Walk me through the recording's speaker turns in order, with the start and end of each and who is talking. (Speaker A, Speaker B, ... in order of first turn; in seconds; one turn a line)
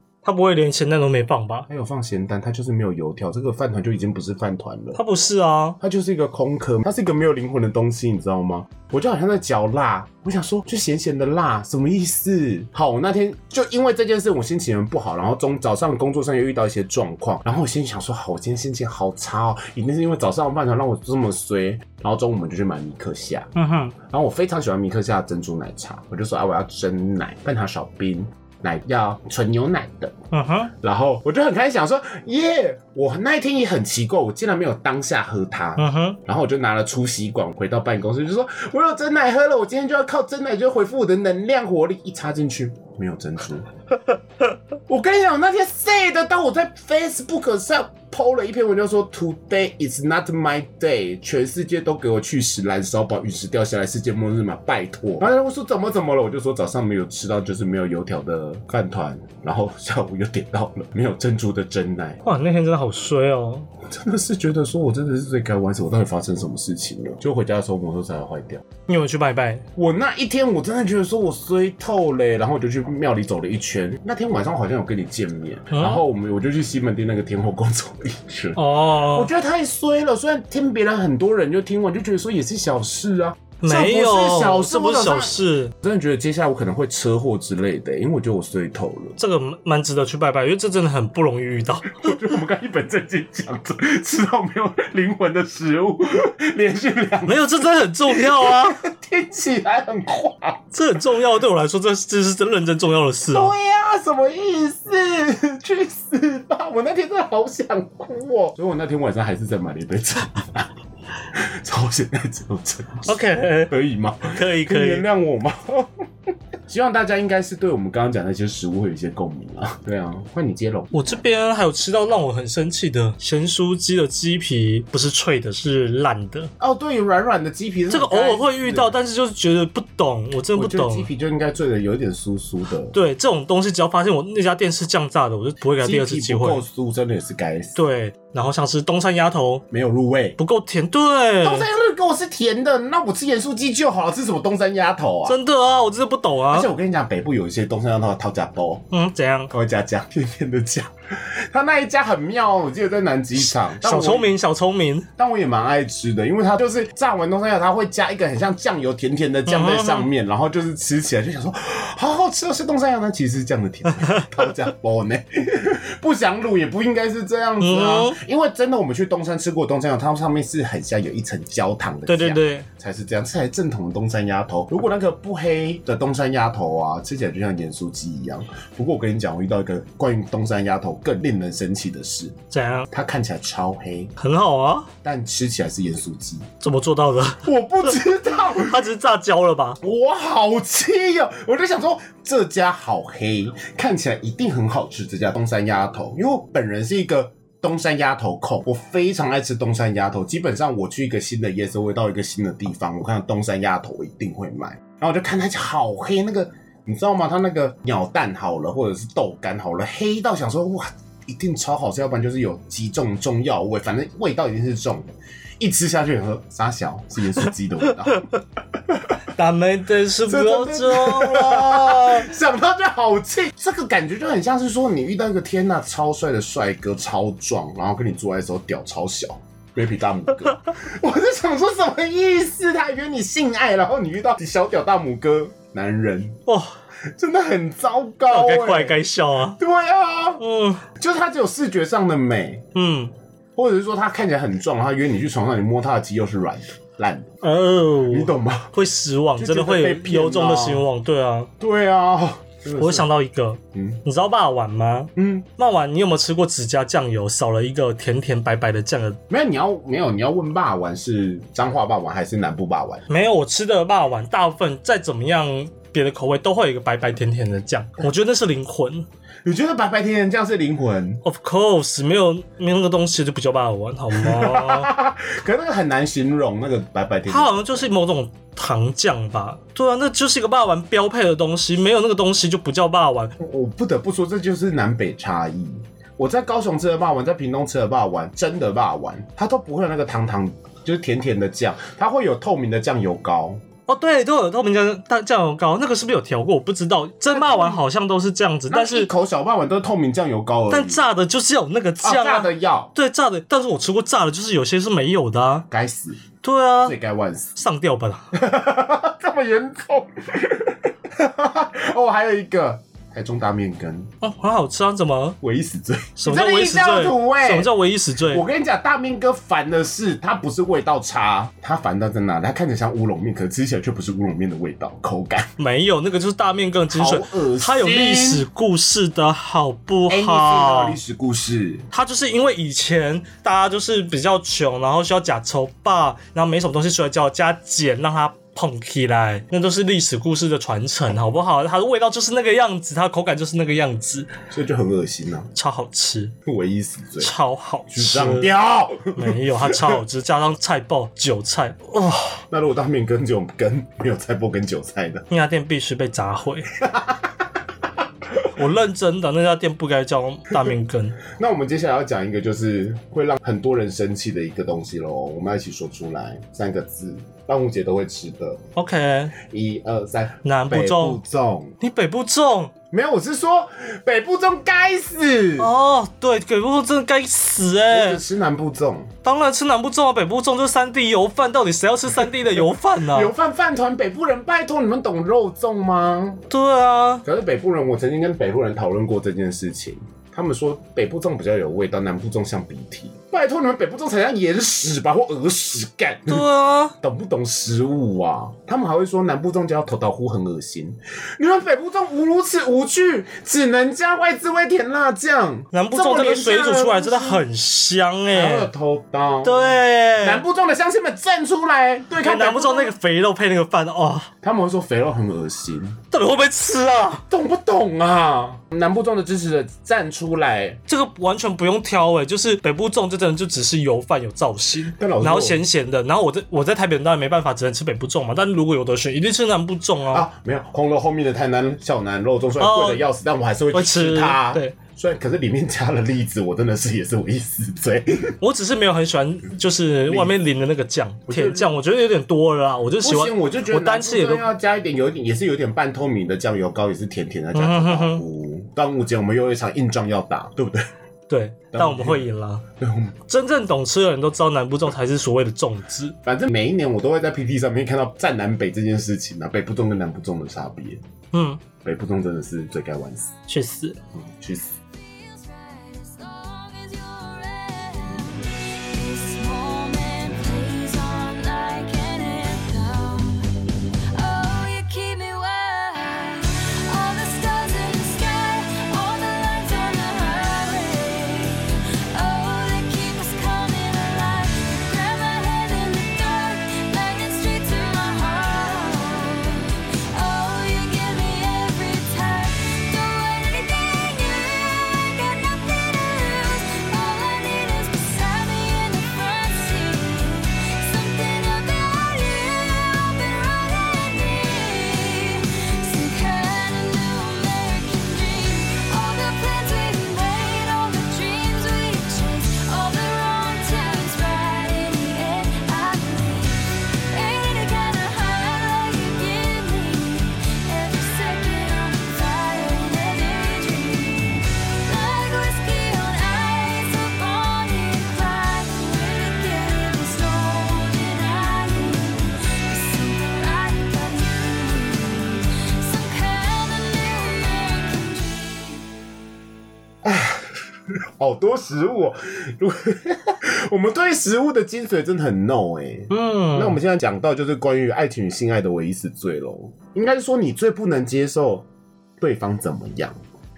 Speaker A: 0.2-1.7
Speaker B: 1.7-5.0
Speaker A: 5.0-5.8
Speaker B: 5.8-30.1
Speaker A: 23.6-23.9
Speaker A: 30.3-30.7
Speaker B: 30.7-43.7
Speaker A: 35.8-36.2
Speaker B: 44.9-62.2
Speaker A: 62.2-63.7
Speaker B: 63.9-68.7
Speaker A: 68.9-69.7
Speaker B: 69.8-89.2
Speaker A: 75.7-76.0
Speaker A: 78.6-79.3
Speaker A: 83.6-85.7
Speaker A: 89.2-92.2
Speaker B: 92.0-97.5
Speaker A: 97.2-98.8
Speaker B: 98.1-100.7
Speaker A: 100.7-103.5
Speaker B: 103.3-110.7
Speaker B: 111.3-115.9
Speaker A: 113.0-115.0
Speaker B: 116.7-121.2
Speaker A: 120.9-126.5
Speaker B: 126.6-128.9
Speaker A: 127.9-131.1
Speaker B: 130.5-133.0
Speaker A: 132.9-136.6
Speaker B: 135.8-137.8
Speaker A: 137.8-139.7
Speaker B: 139.7-140.4
Speaker A: 140.4-141.7
Speaker B: 141.4-145.4
Speaker A: 145.3-146.7
Speaker B: 146.5-148.8
Speaker A: 148.9-149.5
Speaker B: 149.5-154.3
Speaker A: 153.4-155.1
Speaker B: 155.2-184.1
Speaker A: 159.5-160.1
Speaker A: 167.6-168.2
Speaker A: 172.1-172.7
Speaker A: 182.5-182.9
Speaker A: 184.2-184.9
Speaker B: 185.0-186.5
Speaker A: 186.6-187.5
Speaker B: 187.4-188.9
Speaker A: 188.5-189.8
Speaker B: 189.8-218.3
Speaker B: 218.9-219.2
Speaker A: 219.3-222.3
Speaker B: 220.3-236.4
Speaker A: 236.5-236.8
Speaker B: 237.2-239.0
Speaker A: 238.3-239.6
Speaker B: 239.6-240.4
Speaker A: 240.4-240.8
Speaker B: 241.0-242.7
Speaker A: 242.8-243.1
Speaker B: 243.6-247.3
Speaker A: 247.4-251.5
Speaker B: 248.1-248.7
Speaker B: 249.4-250.9
Speaker B: 251.6-253.1
Speaker A: 252.8-259.2
Speaker B: 253.7-254.0
Speaker B: 255.2-255.5
Speaker B: 259.3-263.1
Speaker A: 263.1-269.1
Speaker B: 269.4-271.2
Speaker A: 271.2-274.9
Speaker B: 274.1-277.9
Speaker A: 277.3-283.3
Speaker B: 283.4-293.6
Speaker A: 293.9-299.1
Speaker B: 297.3-297.8
Speaker B: 298.7-301.1
Speaker A: 300.7-305.7
Speaker B: 302.0-302.9
Speaker B: 305.7-306.2
Speaker A: 306.4-307.0
Speaker B: 306.8-307.6
Speaker A: 307.6-308.3
Speaker B: 308.3-314.1
Speaker A: 314.2-315.4
Speaker B: 315.4-317.7
Speaker A: 316.2-318.4
Speaker B: 318.3-325.5
Speaker A: 325.6-331.0
Speaker B: 326.9-328.5
Speaker B: 330.1-331.9
Speaker A: 331.9-344.3
Speaker B: 344.5-345.5
Speaker A: 345.6-346.4
Speaker B: 346.5-347.3
Speaker A: 347.2-348.5
Speaker B: 347.9-350.0
Speaker A: 349.1-352.4
Speaker B: 352.5-355.3
Speaker A: 355.3-356.7
Speaker B: 356.8-357.3
Speaker A: 358.5-361.2
Speaker B: 361.2-368.6
Speaker A: 368.8-369.4
Speaker B: 369.4-371.8
Speaker A: 370.4-371.2
Speaker A: 371.8-372.7
Speaker B: 372.9-375.7
Speaker A: 375.6-378.2
Speaker B: 377.9-379.1
Speaker A: 379.2-383.3
Speaker B: 383.0-386.4
Speaker A: 386.5-387.2
Speaker B: 387.2-396.5
Speaker A: 396.3-396.9
Speaker B: 397.0-407.4
Speaker A: 405.7-408.7
Speaker B: 408.3-412.9
Speaker A: 409.4-410.4
Speaker A: 412.2-414.3
Speaker B: 414.4-416.0
Speaker A: 416.1-417.2
Speaker B: 417.3-420.8
Speaker A: 420.9-430.3
Speaker B: 425.0-425.6
Speaker B: 430.1-438.4
Speaker A: 432.6-433.1
Speaker A: 433.7-434.8
Speaker A: 438.4-444.5
Speaker B: 440.1-440.4
Speaker B: 441.3-441.7
Speaker B: 443.0-450.9
Speaker A: 447.5-448.2
Speaker A: 451.3-452.6
Speaker B: 451.7-452.3
Speaker B: 452.8-453.1
Speaker A: 453.3-456.2
Speaker B: 456.2-461.0
Speaker A: 461.3-461.6
Speaker B: 461.8-463.3
Speaker A: 463.5-464.0
Speaker B: 464.2-464.8
Speaker C: 464.9-538.9
Speaker B: 540.0-551.7
Speaker A: 546.1-546.8
Speaker B: 552.2-553.2